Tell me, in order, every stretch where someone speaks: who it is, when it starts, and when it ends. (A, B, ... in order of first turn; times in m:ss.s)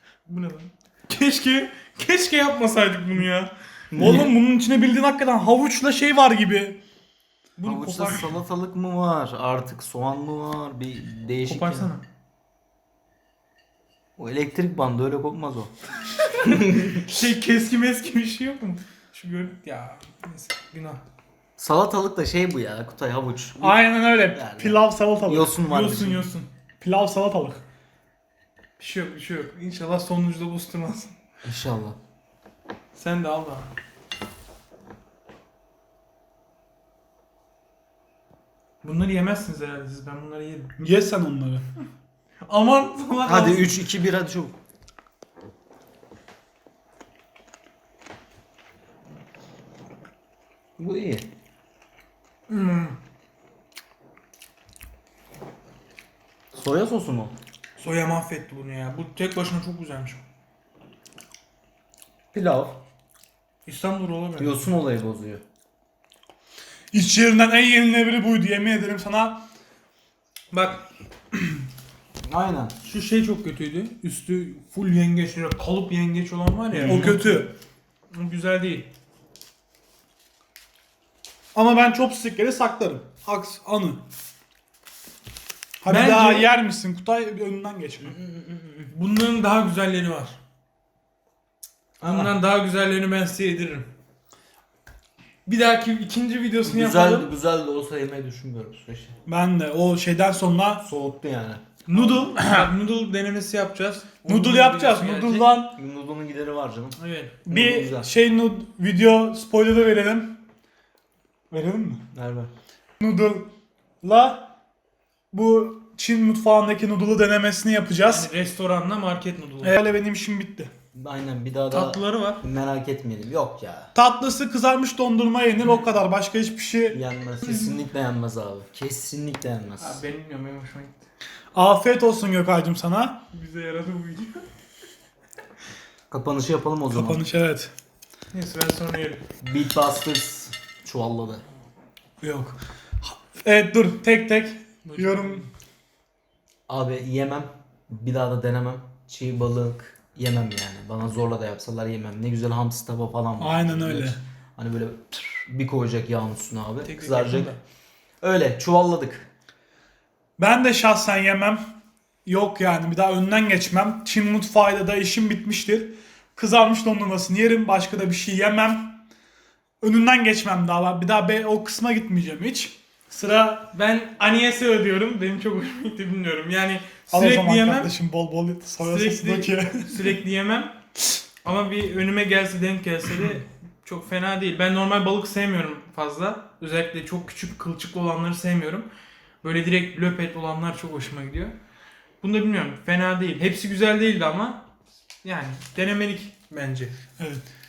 0:00.2-0:04.2 A
0:03.9-0:04.3 B
0:04.0-0:06.8 C
0:07.6-0:08.3 A
0:07.6-0:11.9 B
0:11.4-0:12.0 A
0:14.2-0:15.7 B
0:16.3-0:17.1 B
0:17.0-0:21.0 A
0:21.6-0:26.3 B
0:23.6-0:25.7 C
0:25.7-0:26.5 A
0:26.8-0:27.6 C
0:28.8-0:31.1 A
0:31.4-0:32.0 B
0:32.9-0:33.7 A
0:38.8-0:40.7 A
0:40.8-0:41.6 C
0:42.5-0:43.8 A
0:43.2-0:44.6 B
0:50.8-0:51.2 B
0:52.5-0:53.0 A
0:56.5-0:57.4 B
0:57.8-1:00.2 A
1:02.3-1:02.8 B
1:03.6-1:04.7 A
1:04.4-1:05.4 B
1:06.9-1:09.4 C
1:10.5-1:10.8 A
1:12.2-1:12.7 B
1:12.8-1:17.4 A
1:16.7-1:17.2 B
1:16.8-1:17.5 C
1:18.1-1:18.9 A
1:21.5-1:24.0 C
1:25.8-1:28.1 C
1:25.8-1:26.5 A
1:28.0-1:28.9 B
1:28.9-1:30.4 A
1:32.0-1:32.4 B
1:32.0-1:33.9 A
1:35.4-1:37.3 A
1:36.6-1:39.2 B
1:39.2-1:40.8 C
1:40.8-1:42.2 B
1:41.8-1:45.6 A
1:42.3-1:42.7 C
1:44.2-1:45.7 C
1:45.6-1:48.1 B
1:47.0-1:47.4 A
1:47.5-1:50.4 C
1:51.5-1:52.0 C
1:52.1-1:52.5 B
1:53.0-1:53.5 C
1:54.0-1:54.5 C
1:55.3-1:58.3 C
1:58.0-1:59.8 A
1:59.6-2:00.7 C
2:00.9-2:03.9 B
2:01.7-2:02.4 A
2:03.9-2:07.0 C
2:06.9-2:10.0 B
2:07.4-2:07.7 A
2:09.8-2:11.0 A
2:11.5-2:13.2 C
2:13.3-2:14.4 A
2:16.1-2:17.2 B
2:16.9-2:17.7 C
2:18.3-2:19.2 A
2:19.4-2:21.4 B
2:22.2-2:25.5 C
2:24.8-2:25.5 A
2:26.7-2:37.5 B
2:33.4-2:34.2 C
2:36.8-2:37.6 A
2:38.2-2:39.3 B
2:40.4-2:41.6 C
2:42.2-2:49.0 C
2:49.8-2:53.7 C
2:53.7-2:57.9 A
2:57.1-3:00.0 C
2:58.8-3:00.7 A
3:01.4-3:08.9 A
3:09.4-3:11.6 A
3:12.2-3:14.6 A
3:15.2-3:16.9 A
3:17.2-3:17.4 C